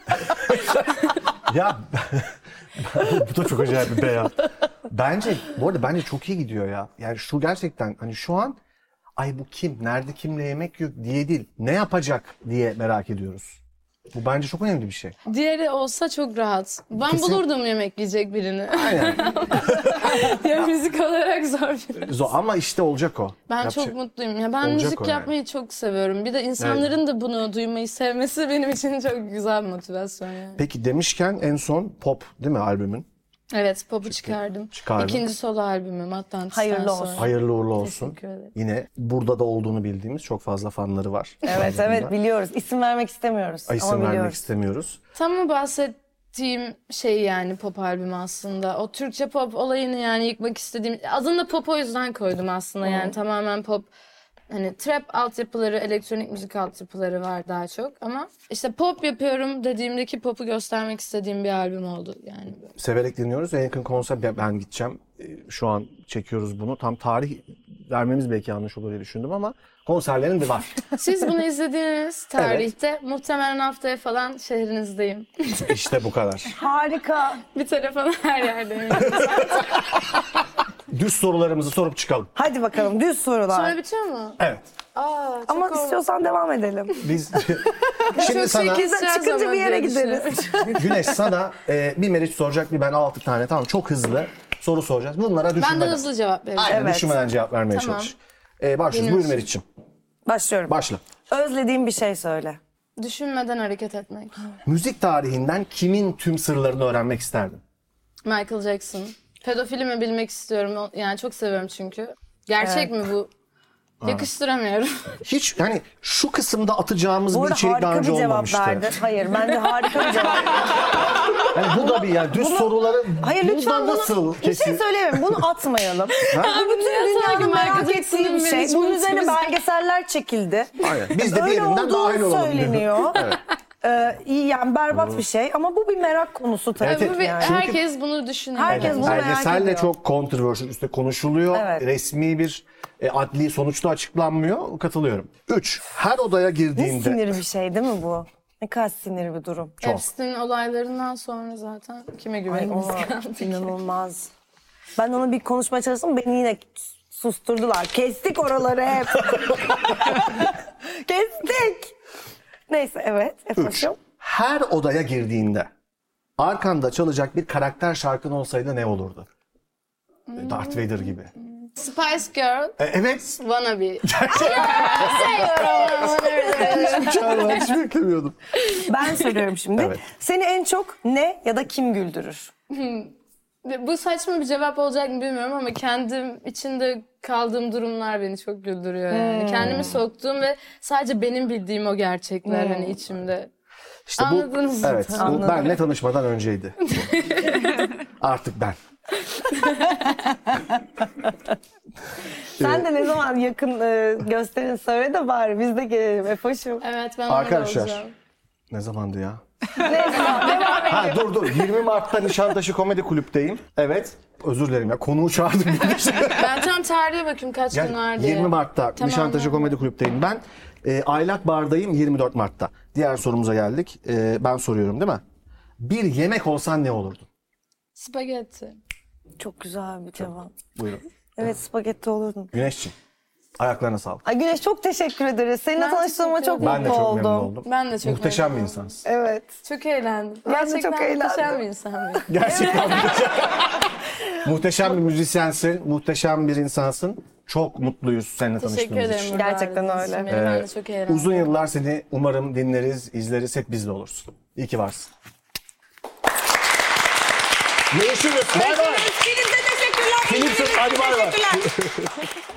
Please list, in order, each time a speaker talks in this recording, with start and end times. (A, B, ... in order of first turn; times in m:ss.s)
0:00.5-0:00.7 A
0:01.4-0:04.4 A
0:04.9-0:08.6 A
0:09.2-0:13.6 A
0:14.1-0:15.2 A
0:15.3-0:22.2 B
0:17.0-0:17.4 A
0:18.7-0:20.3 A
0:22.0-0:24.0 A
0:23.5-0:30.6 B
0:24.6-0:25.3 A
0:26.6-0:26.8 A
0:30.6-0:33.0 A
0:33.5-0:37.3 B
0:34.1-0:35.3 A
0:36.5-0:37.3 C
0:37.2-0:42.1 A
0:37.8-0:38.5 B
0:41.4-0:44.4 C
0:43.7-0:45.0 A
0:45.1-0:53.9 B
0:52.8-0:53.1 C
0:54.5-1:02.7 B
1:02.8-1:10.8 A
1:11.0-1:15.8 B
1:12.4-1:12.7 A
1:15.7-1:16.5 A
1:16.6-1:17.4 C
1:17.5-1:19.8 B
1:19.0-1:19.5 A
1:20.9-1:22.3 A
1:22.3-1:23.8 C
1:23.5-1:24.4 B
1:24.4-1:24.7 A
1:24.9-1:26.0 B
1:25.5-1:27.1 C
1:27.0-1:28.8 A
1:28.0-1:31.0 C
1:28.1-1:30.8 B
1:30.7-1:36.0 A
1:35.6-1:37.0 B
1:36.6-1:39.6 A
1:36.6-1:37.1 C
1:37.7-1:38.1 B
1:38.9-1:39.4 B
1:40.3-1:40.8 C
1:40.7-1:41.0 A
1:41.3-1:42.6 C
1:43.0-1:44.4 B
1:44.6-1:47.6 A
1:48.2-1:53.3 B
1:52.6-1:52.9 C
1:54.0-1:54.3 A
1:54.0-1:55.2 B
1:55.2-1:58.9 A
1:57.3-2:00.7 C
2:01.5-2:04.8 A
2:01.7-2:17.6 C
2:06.4-2:09.5 B
2:10.8-2:13.4 A
2:14.9-2:15.2 A
2:16.8-2:19.2 B
2:16.9-2:17.8 A
2:18.5-2:19.9 C
2:18.7-2:27.3 A
2:21.5-2:21.8 C
2:26.8-2:29.8 C
2:29.8-2:33.7 B
2:32.5-2:34.3 C
2:35.0-2:41.9 C
2:42.7-2:44.0 C
2:43.6-2:45.7 A
2:46.4-2:49.3 A
2:50.3-2:51.1 B
2:50.4-2:51.3 A
2:51.6-2:52.8 B
2:52.8-2:53.4 A
2:53.4-2:57.7 B
2:54.0-2:58.4 A
2:54.7-2:55.3 C
2:58.6-2:59.3 B
2:58.8-3:02.5 C
3:02.7-3:03.1 B
3:03.6-3:13.5 B
3:09.1-3:09.9 C
3:09.6-3:10.0 A
3:12.4-3:13.0 C
3:14.1-3:17.0 A
3:14.2-3:15.7 B
3:15.1-3:15.8 C
3:16.8-3:17.9 B
3:18.2-3:18.8 A
3:19.3-3:20.2 B
3:22.6-3:26.8 C
3:22.6-3:22.9 A
3:26.8-3:28.1 B
3:27.3-3:28.0 A
3:28.7-3:29.4 A
3:29.8-3:31.5 C
3:30.4-3:30.8 B
3:30.8-3:36.5 A
3:36.3-3:39.8 B
3:37.7-3:45.2 A
3:45.8-3:47.2 A
3:47.9-3:48.8 B
3:49.4-3:50.6 C
3:50.2-3:51.0 A
3:51.4-3:52.5 C
3:52.5-3:52.9 A
3:53.6-3:54.2 A
3:54.2-3:57.5 C
3:55.8-3:57.1 B
3:56.6-3:58.9 A
3:57.6-3:59.0 B
3:59.0-3:59.5 C
3:59.6-4:02.3 B
4:00.4-4:01.6 C
4:02.3-4:03.9 A
4:02.3-4:03.3 C
4:04.4-4:09.4 A
4:08.6-4:11.5 B
4:09.3-4:10.3 C
4:10.3-4:15.1 A
4:17.9-4:19.1 A
4:18.5-4:21.6 C
4:20.2-4:22.1 A